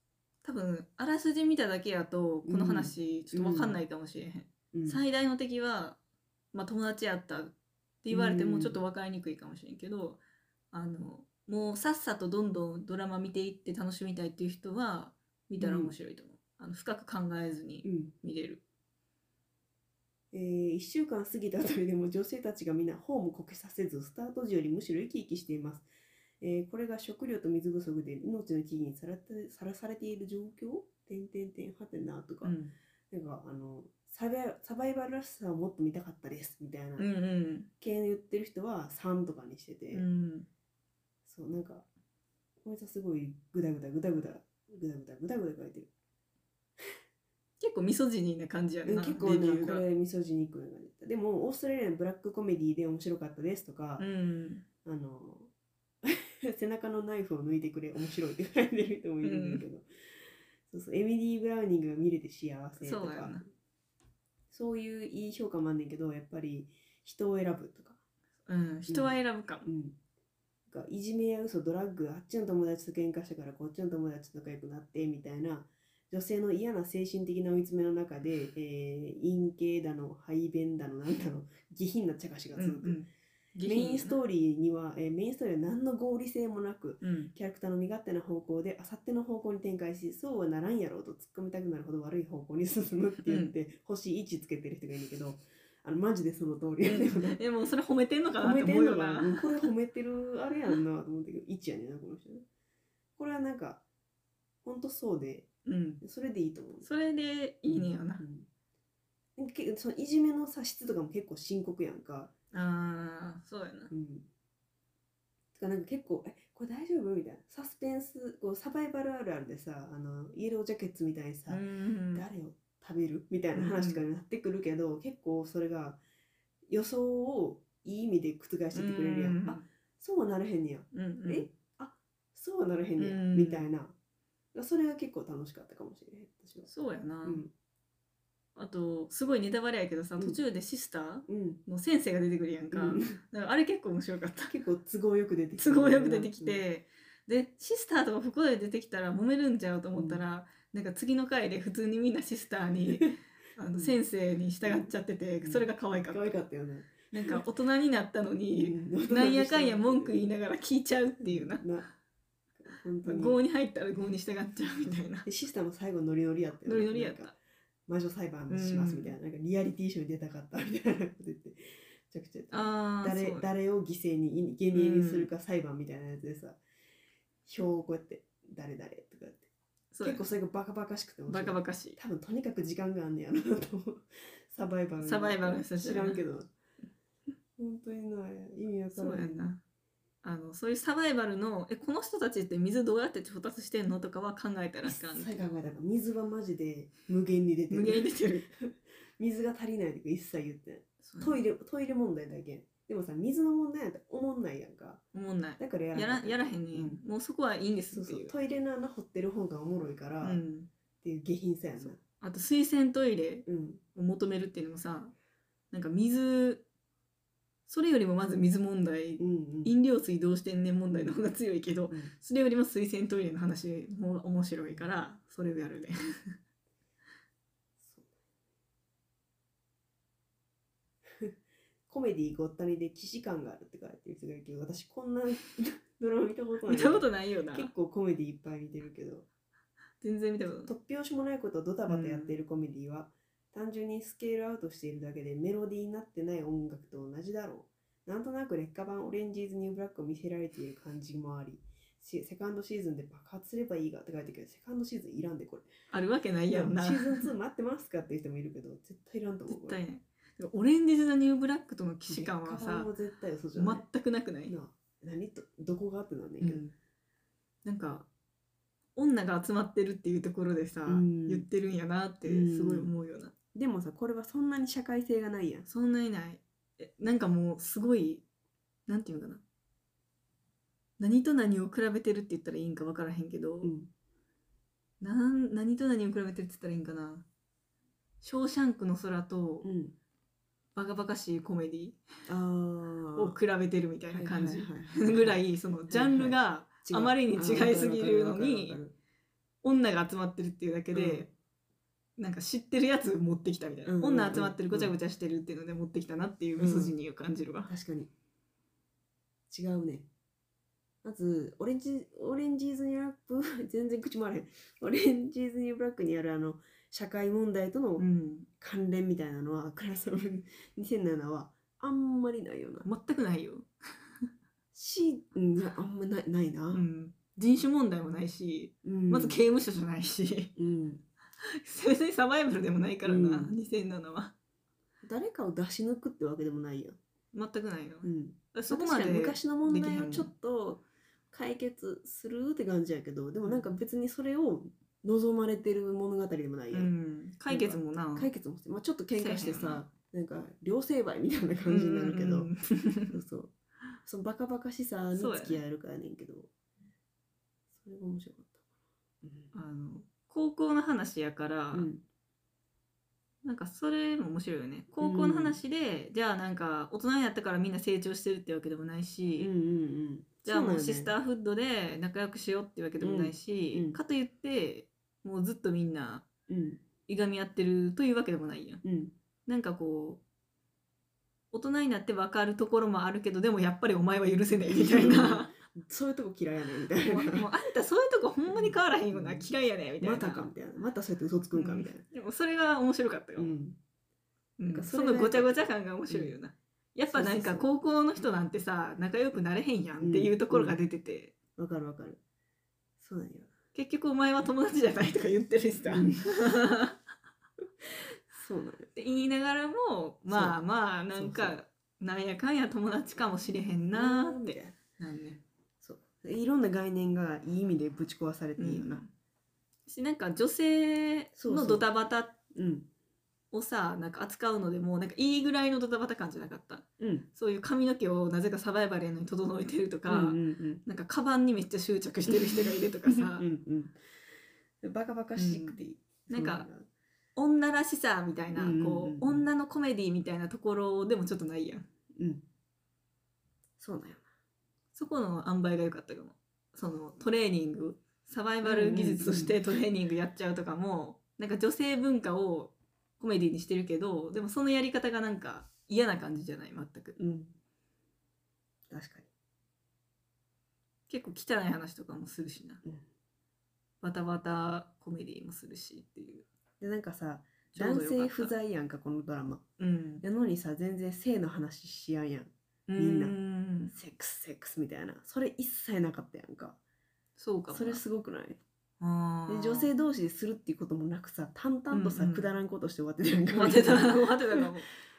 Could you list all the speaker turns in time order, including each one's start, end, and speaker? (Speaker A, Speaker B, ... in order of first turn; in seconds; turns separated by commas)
Speaker A: 0.4-6.0, Speaker B: 2.4-3.8, Speaker B: 4.7-5.0, Speaker A: 6.5-10.2, Speaker B: 8.1-8.8, Speaker A: 10.7-18.6, Speaker B: 15.6-15.9, Speaker B: 17.8-18.1, Speaker B: 20.3-25.9, Speaker B: 26.4-32.6, Speaker A: 32.4-32.7, Speaker B: 33.1-37.1, Speaker A: 37.0-37.7, Speaker B: 37.8-40.0, Speaker A: 39.9-40.5, Speaker B: 41.2-41.8, Speaker B: 42.6-45.9, Speaker A: 47.6-49.8, Speaker B: 48.9-54.0, Speaker A: 54.0-54.6, Speaker B: 54.8-55.5, Speaker B: 56.0-59.9, Speaker A: 59.2-59.6, Speaker B: 60.7-63.4, Speaker A: 62.8-63.4, Speaker B: 64.5-68.0, Speaker A: 68.5-69.7, Speaker B: 68.9-70.0, Speaker B: 70.7-83.0, Speaker A: 82.5-84.2, Speaker B: 83.6-97.4, Speaker A: 87.0-87.3, Speaker A: 93.2-93.5, Speaker A: 96.8-99.7, Speaker B: 98.4-102.4, Speaker B: 103.2-103.8, Speaker B: 104.6-105.5, Speaker A: 105.7-106.0, Speaker B: 106.0-106.9, Speaker A: 106.8-108.2, Speaker B: 107.7-108.5, Speaker B: 109.4-112.3, Speaker A: 112.5-113.9, Speaker B: 113.9-114.3, Speaker B: 115.5-121.6, Speaker A: 121.5-122.2, Speaker B: 122.1-126.0, Speaker A: 123.5-124.0, Speaker B: 126.7-133.9, Speaker A: 128.7-129.6, Speaker A: 130.9-131.5, Speaker A: 133.0-133.7, Speaker B: 134.5-136.7, Speaker A: 136.7-137.4, Speaker B: 137.2-137.5, Speaker A: 138.6-144.5, Speaker B: 141.3-141.6, Speaker B: 142.7-143.2, Speaker B: 144.5-146.6, Speaker A: 145.6-156.4, Speaker B: 149.9-150.2, Speaker B: 154.6-154.9, Speaker B: 155.4-157.4, Speaker A: 157.1-161.7, Speaker B: 158.5-160.2, Speaker B: 161.2-161.9, Speaker B: 162.6-163.4, Speaker A: 163.0-165.2, Speaker B: 165.2-176.6, Speaker A: 166.6-167.3, Speaker A: 168.5-169.1, Speaker A: 172.5-173.5, Speaker A: 174.7-175.3, Speaker B: 177.4-179.5, Speaker A: 179.9-180.3, Speaker B: 180.0-186.5, Speaker A: 181.3-182.0, Speaker A: 185.0-186.2, Speaker B: 187.6-189.5, Speaker A: 188.9-189.6, Speaker A: 190.2-195.5, Speaker B: 194.8-205.0, Speaker A: 197.7-198.5, Speaker A: 201.0-201.4, Speaker A: 205.1-208.3, Speaker B: 205.6-207.0, Speaker B: 207.9-210.4, Speaker A: 210.2-210.7, Speaker B: 211.0-212.0, Speaker A: 211.8-215.1, Speaker B: 213.4-213.8, Speaker A: 215.7-216.6, Speaker A: 217.7-226.3, Speaker B: 219.2-219.7, Speaker B: 227.8-228.2, Speaker B: 231.9-239.3, Speaker A: 236.7-237.7, Speaker A: 240.0-240.7, Speaker B: 240.7-255.7, Speaker A: 241.9-242.4, Speaker A: 255.9-257.3, Speaker B: 256.5-259.8, Speaker A: 259.5-262.9, Speaker B: 262.1-263.8, Speaker A: 263.5-264.6, Speaker B: 264.5-266.6, Speaker A: 266.4-266.7, Speaker A: 267.6-268.1, Speaker A: 268.9-273.3, Speaker B: 270.9-271.4, Speaker B: 272.2-272.9, Speaker B: 273.5-275.7, Speaker A: 275.7-278.2, Speaker A: 278.9-279.4, Speaker A: 281.0-283.7, Speaker B: 283.6-283.9, Speaker A: 285.0-287.2, Speaker A: 288.2-289.7, Speaker B: 289.6-289.9, Speaker A: 290.8-292.0, Speaker B: 292.3-293.4, Speaker A: 293.1-298.8, Speaker B: 294.1-298.9, Speaker A: 299.6-301.3, Speaker B: 300.9-301.3, Speaker A: 302.2-307.7, Speaker B: 303.9-304.9, Speaker B: 306.6-306.9, Speaker B: 307.6-308.1, Speaker B: 309.5-310.1, Speaker B: 311.0-318.1, Speaker A: 318.0-318.5, Speaker B: 318.6-322.9, Speaker A: 322.8-323.7, Speaker B: 324.7-326.8, Speaker A: 326.7-330.5, Speaker B: 328.8-329.4, Speaker B: 330.6-331.0, Speaker A: 331.4-334.3, Speaker B: 333.0-333.5, Speaker B: 335.0-337.0, Speaker A: 337.3-340.3, Speaker B: 338.0-346.9, Speaker A: 343.4-343.7, Speaker A: 346.7-348.3, Speaker B: 347.5-352.5, Speaker A: 349.1-349.8, Speaker A: 351.7-353.2, Speaker B: 353.1-353.5, Speaker B: 354.0-356.5, Speaker A: 355.1-355.6, Speaker B: 357.8-358.6, Speaker B: 359.2-359.5, Speaker A: 359.5-361.9, Speaker B: 361.7-362.0, Speaker A: 363.4-369.5, Speaker B: 365.0-365.6, Speaker B: 369.4-371.1, Speaker A: 370.4-376.2, Speaker B: 373.0-374.0, Speaker B: 376.5-376.8, Speaker A: 377.1-378.8, Speaker B: 378.8-379.1, Speaker A: 379.4-380.2, Speaker A: 381.5-385.5, Speaker B: 384.7-387.5, Speaker A: 387.0-390.5, Speaker B: 388.5-389.5, Speaker B: 390.0-392.0, Speaker A: 391.5-393.5, Speaker B: 393.4-393.8, Speaker A: 394.6-401.3, Speaker B: 394.7-396.4, Speaker B: 397.1-397.7, Speaker B: 400.0-400.8, Speaker B: 401.6-402.2, Speaker B: 403.0-403.5, Speaker A: 403.7-407.0, Speaker B: 405.9-406.2, Speaker B: 408.3-408.9, Speaker A: 408.9-415.4, Speaker B: 410.3-410.6, Speaker B: 411.1-411.6, Speaker B: 413.9-414.8, Speaker B: 415.8-419.0, Speaker A: 418.6-419.1, Speaker A: 419.9-422.4, Speaker B: 421.4-421.9, Speaker B: 422.5-422.9, Speaker A: 423.5-433.4, Speaker B: 427.0-427.3, Speaker B: 430.1-430.8, Speaker B: 432.3-434.0, Speaker B: 434.8-436.9, Speaker A: 435.4-436.7, Speaker A: 437.4-441.9, Speaker B: 438.5-439.5, Speaker B: 442.2-442.4, Speaker B: 443.8-444.2, Speaker A: 444.9-457.1, Speaker B: 448.6-449.6, Speaker B: 457.2-457.5, Speaker B: 458.9-459.3, Speaker A: 461.1-462.8, Speaker A: 464.0-466.5, Speaker B: 466.8-469.6, Speaker A: 467.7-468.5, Speaker A: 469.8-470.2, Speaker B: 470.2-473.4, Speaker A: 472.9-473.9, Speaker B: 473.9-476.8, Speaker A: 477.4-478.0, Speaker B: 477.7-478.6, Speaker A: 479.0-479.9, Speaker B: 479.5-484.7, Speaker A: 481.9-482.4, Speaker A: 483.5-484.9